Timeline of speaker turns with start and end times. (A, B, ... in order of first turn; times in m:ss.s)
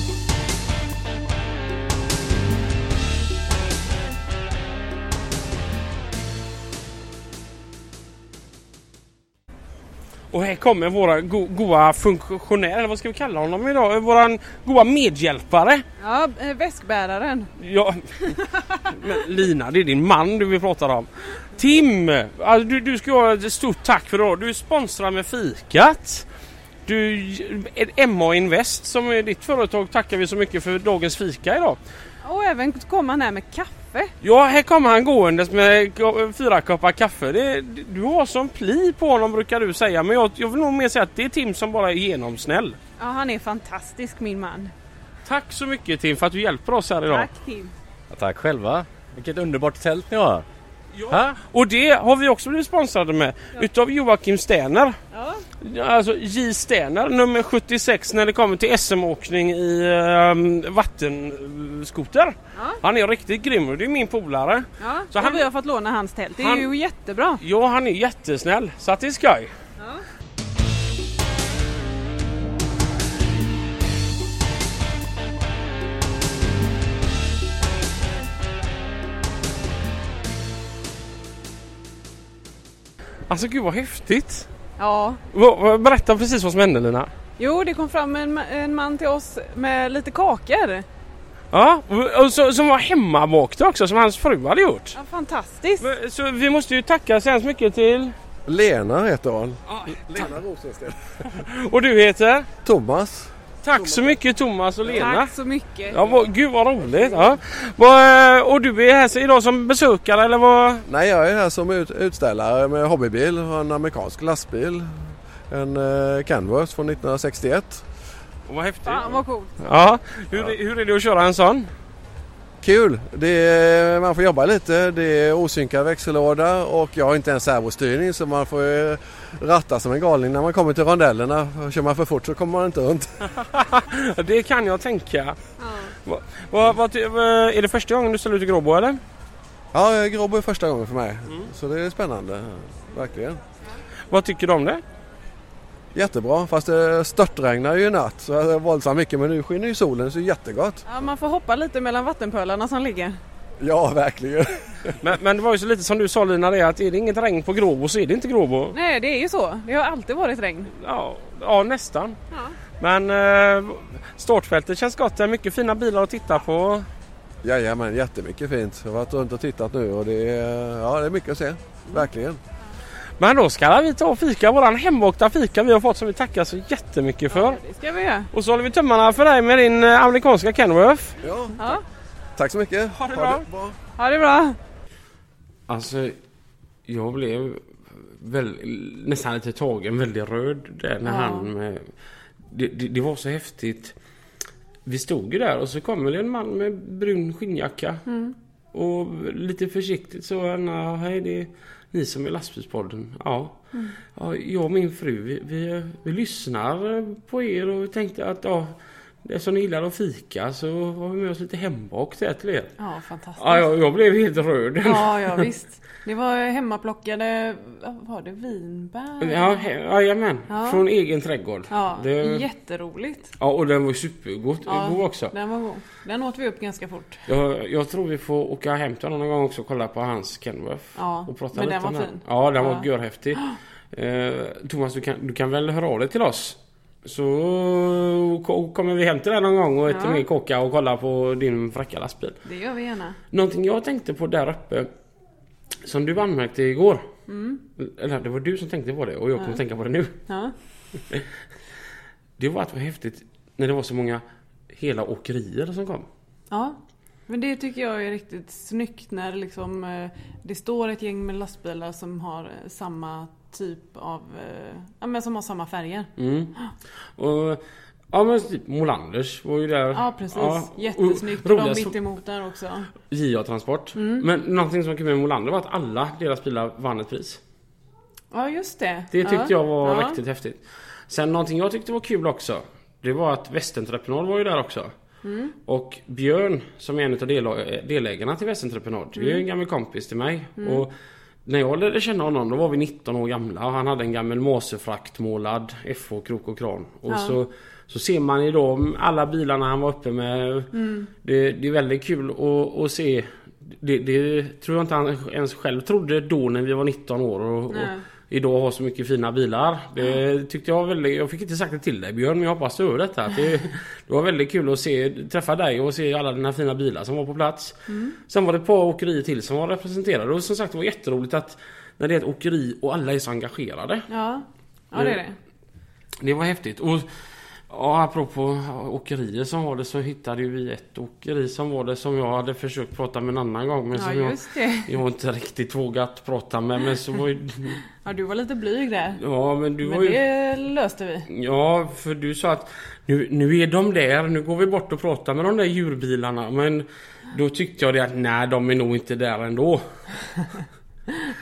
0:10.3-0:15.8 A
0:16.0-0:17.5 B
0:17.6-0:26.2 A
0:18.4-0:18.8 B
0:26.8-0:31.8 A
0:32.2-0:34.1 B
0:34.2-0:42.8 A
0:43.0-0:44.7 B
0:45.2-0:47.3 A
0:47.1-0:47.7 B
0:48.1-0:50.4 C
0:50.9-0:55.0 A
0:51.1-0:51.4 C
0:55.1-0:55.4 B
0:55.6-1:05.4 A
1:02.5-1:02.8 B
1:04.8-1:07.4 B
1:06.4-1:06.7 A
1:07.4-1:09.5 A
1:09.8-1:10.0 B
1:23.3-1:24.5 A
1:24.8-1:25.2 B
1:25.3-1:27.1 A
1:27.4-1:30.8 B
1:31.5-1:35.0 A
1:34.9-1:35.9 B
1:35.8-1:38.1 A
1:38.5-1:41.0 D
1:39.7-1:40.3 A
1:41.3-1:42.5 A
1:42.6-1:44.2 D
1:43.6-1:45.3 A
1:44.9-1:46.0 B
1:45.9-1:50.8 A
1:50.9-1:55.0 D
1:55.5-1:57.8 D
1:58.5-2:01.7 A
1:58.8-1:59.6 B
2:02.6-2:13.3 D
2:13.4-2:15.4 A
2:15.6-2:15.9 B
2:16.0-2:19.0 A
2:19.7-2:23.4 D
2:24.1-2:24.8 A
2:25.9-2:30.8 D
2:30.9-2:33.2 B
2:33.6-2:34.9 D
2:35.0-2:38.7 A
2:38.7-2:40.7 B
2:40.7-2:42.2 A
2:42.3-2:42.6 B
2:42.8-2:46.9 A
2:47.4-2:52.4 D
2:53.2-2:57.6 A
2:57.3-2:58.3 B
2:58.3-3:01.2 A
3:01.2-3:01.6 D
3:01.6-3:01.8 B
3:02.4-3:03.8 D
3:02.9-3:03.4 A
3:04.0-3:04.6 B
3:05.7-3:06.2 A
3:06.9-3:11.8 A
3:11.0-3:11.5 B
3:12.5-3:13.9 A
3:14.8-3:18.0 A
3:18.0-3:18.3 B
3:18.7-3:23.6 A
3:23.7-3:24.0 B
3:24.1-3:32.7 A
3:32.8-3:33.7 B
3:33.4-3:35.5 A
3:34.8-3:39.7 B
3:39.2-3:42.5 A
3:40.5-3:40.8 B
3:41.7-3:43.3 B
3:43.4-3:45.3 A
3:44.6-3:47.2 B
3:47.3-4:02.4 A
3:50.9-3:53.6 B
3:59.9-4:00.2 B
4:02.4-4:03.2 B
4:03.3-4:04.9 A
4:05.8-4:07.1 A
4:07.3-4:07.6 B
4:07.8-4:10.2 A
4:10.3-4:10.6 B
4:12.4-4:16.1 A
4:16.5-4:26.7 B
4:26.2-4:26.5 A
4:27.2-4:32.0 A
4:29.9-4:32.9 B
4:33.1-4:37.4 A
4:33.9-4:34.3 B
4:38.3-4:40.2 B
4:39.1-4:44.9 A
4:45.2-4:45.6 B
4:45.6-4:50.9 A
4:49.1-4:49.4 B
4:50.6-4:50.8 B
4:51.4-5:00.7 A
4:57.1-4:57.4 B
5:00.7-5:01.1 B
5:01.2-5:24.0 A
5:07.7-5:08.0 B
5:17.9-5:18.2 B
5:24.1-5:25.4 B
5:24.9-5:25.2 A
5:26.2-5:27.1 A
5:27.7-5:37.8 A
5:33.9-5:35.0 B
5:37.9-5:39.2 B
5:39.2-5:40.2 A
5:39.8-5:41.3 B
5:41.3-5:49.8 A